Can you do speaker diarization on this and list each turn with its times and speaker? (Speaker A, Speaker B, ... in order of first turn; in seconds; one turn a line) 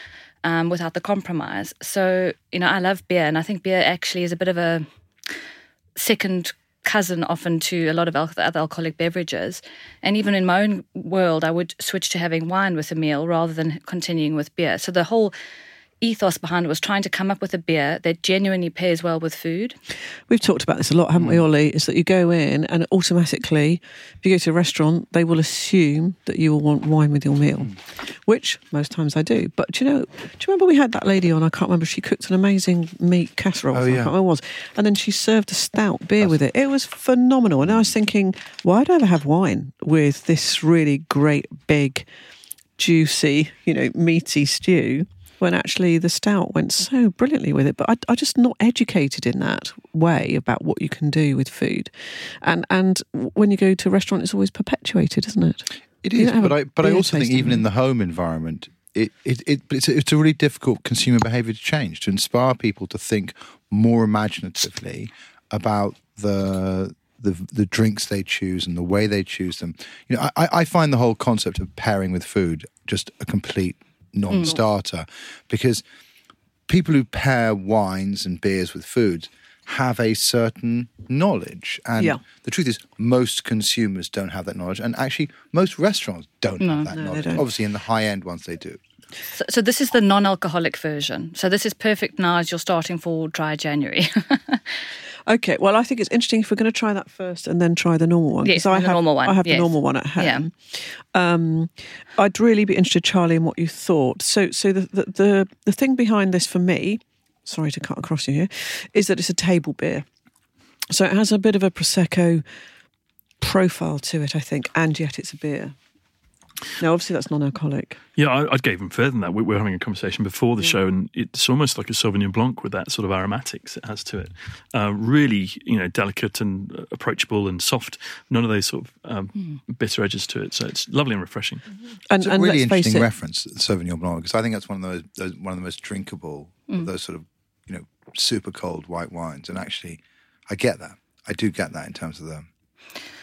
Speaker A: 0.4-4.8
Speaker A: 6.0-15.3
Speaker A: 16.0-19.7
Speaker B: 20.3-42.1
Speaker C: 33.7-34.1
Speaker C: 37.6-37.9
Speaker B: 42.8-57.6
Speaker C: 56.0-75.8
Speaker A: 74.3-74.5
Speaker C: 76.7-88.8
Speaker A: 86.6-86.9
Speaker B: 86.9-87.5
Speaker A: 89.3-94.6
Speaker B: 95.2-110.0
Speaker A: 98.4-100.5
Speaker B: 110.9-112.4
Speaker B: 113.4-115.7
Speaker B: 116.8-118.0
Speaker D: 118.2-131.6
Speaker B: 132.1-133.1
Speaker C: 132.2-142.5